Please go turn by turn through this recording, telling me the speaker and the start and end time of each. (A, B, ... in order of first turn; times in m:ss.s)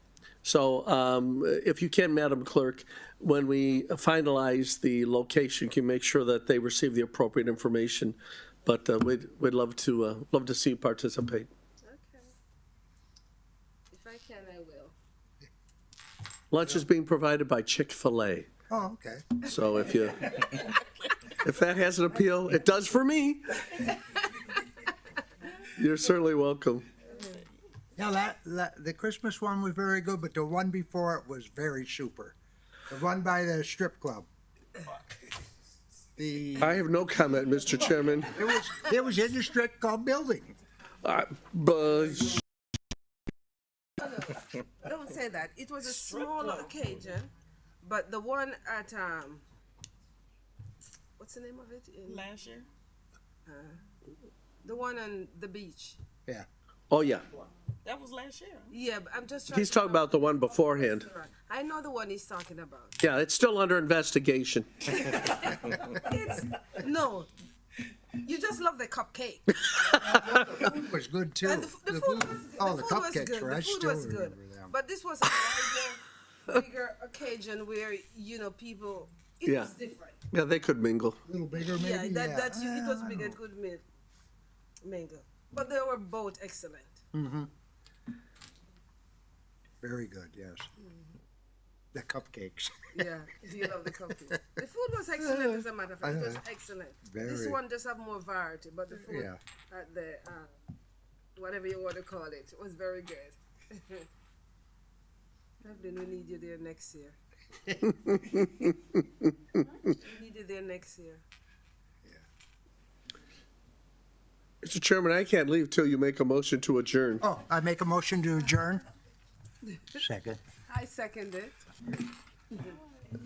0:00.4-0:11.5 A
0:11.8-0:12.3 B
0:13.9-0:15.0 B
0:16.5-0:18.5 A
0:18.7-0:19.4 C
0:19.4-0:20.6 A
0:21.2-0:23.9 A
0:25.6-0:26.9 A
0:28.0-0:32.4 C
0:32.9-0:34.3 C
0:36.2-0:36.8 C
0:36.6-0:38.5 A
0:38.3-0:40.5 C
0:41.0-0:42.4 A
0:44.0-0:47.3 B
0:45.9-0:46.7 D
0:47.8-0:49.4 B
0:51.2-0:52.3 B
0:52.0-0:52.7 D
0:53.4-0:53.8 B
0:54.6-0:56.0 B
0:56.9-0:57.2 A
0:57.8-0:58.7 D
0:58.7-1:02.9 B
0:59.5-1:01.1 A
1:03.0-1:05.7 A
1:05.0-1:07.3 B
1:08.2-1:09.5 B
1:09.5-1:10.7 A
1:10.0-1:14.7 C
1:11.4-1:20.2 B
1:19.4-1:19.7 A
1:20.3-1:21.2 A
1:21.2-1:23.4 C
1:21.6-1:23.8 B
1:24.8-1:27.0 B
1:27.1-1:27.5 C
1:29.8-1:30.7 C
1:31.9-1:33.0 C
1:32.9-1:40.5 B
1:35.2-1:36.4 C
1:37.0-1:37.6 C
1:38.9-1:39.4 C
1:41.3-1:44.1 B
1:45.6-1:47.2 B
1:47.7-1:48.5 C
1:47.9-1:49.0 A
1:49.8-1:51.2 B
1:54.6-1:57.2 A
1:57.2-1:58.8 C
1:59.9-2:00.4 C
2:00.7-2:01.6 B